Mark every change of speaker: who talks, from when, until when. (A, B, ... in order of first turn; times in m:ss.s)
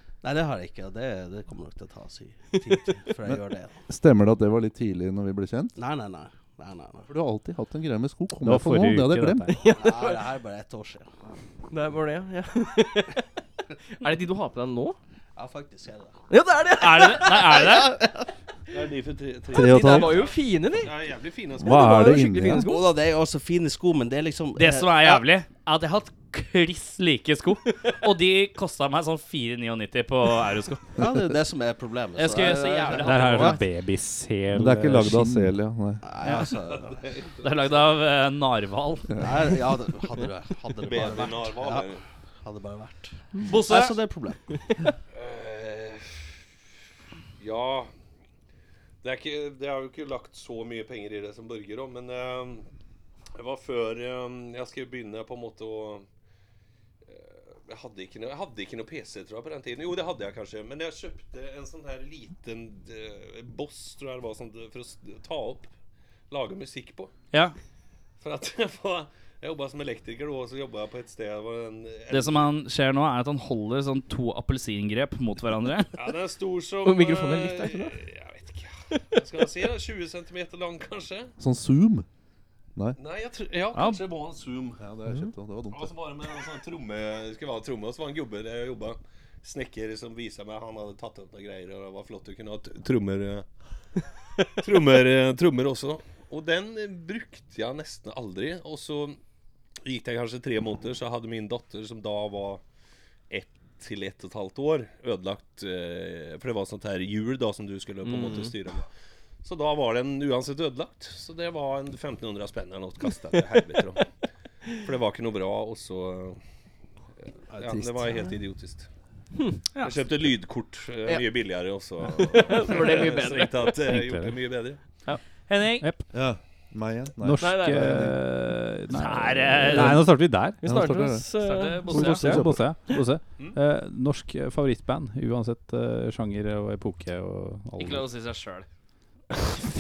0:00.2-0:03.8 A
0:03.9-0:05.8 B
0:05.8-0:07.1 A
0:07.1-0:09.6 B
0:08.4-0:09.5 C
0:09.6-0:10.2 D
0:09.7-0:11.1 A
0:11.7-0:13.2 D
0:13.9-0:15.0 D
0:15.4-0:16.2 A
0:16.3-0:17.8 D
0:16.8-0:18.0 E
0:17.5-0:18.3 A
0:18.7-0:21.8 F
0:19.5-0:20.2 B
0:19.5-0:20.9 D
0:21.6-0:22.6 B
0:21.6-0:22.9 D
0:22.5-0:25.2 A
0:24.6-0:30.8 E
0:31.0-0:33.6 A
0:32.2-0:33.6 E
0:33.0-0:35.6 C
0:34.5-0:36.0 B
0:36.0-0:37.0 A
0:36.7-0:37.7 F
0:37.4-0:39.1 E
0:39.2-0:44.8 A
0:40.8-0:42.0 F
0:43.4-0:44.0 E
0:45.1-0:46.3 F
0:47.4-0:47.9 F
0:49.0-0:52.7 F
0:53.4-0:56.1 F
0:57.0-1:05.7 F
1:06.3-1:07.1 F
1:08.2-1:12.5 F
1:12.1-1:16.0 E
1:16.0-1:21.3 F
1:16.8-1:18.0 D
1:21.4-1:22.1 B
1:23.0-1:24.8 F
1:23.7-1:24.0 E
1:24.8-1:25.9 B
1:25.7-1:33.5 F
1:34.6-1:39.2 F
1:39.8-1:42.6 F
1:43.3-1:48.9 F
1:48.0-1:48.6 D
1:49.4-1:54.1 F
1:54.8-1:56.4 F
1:57.5-1:58.9 F
1:57.5-1:58.3 B
1:59.3-1:59.6 D
1:59.8-2:04.8 F
2:02.2-2:03.8 D
2:03.9-2:04.4 C
2:05.1-2:05.9 E
2:05.8-2:06.1 C
2:06.1-2:08.2 B
2:07.2-2:10.6 C
2:07.4-2:07.9 D
2:08.9-2:10.0 E
2:09.7-2:10.1 B
2:10.5-2:12.5 D
2:10.6-2:11.4 B
2:11.4-2:12.2 E
2:11.9-2:12.7 B
2:11.9-2:18.1 C
2:17.8-2:18.7 E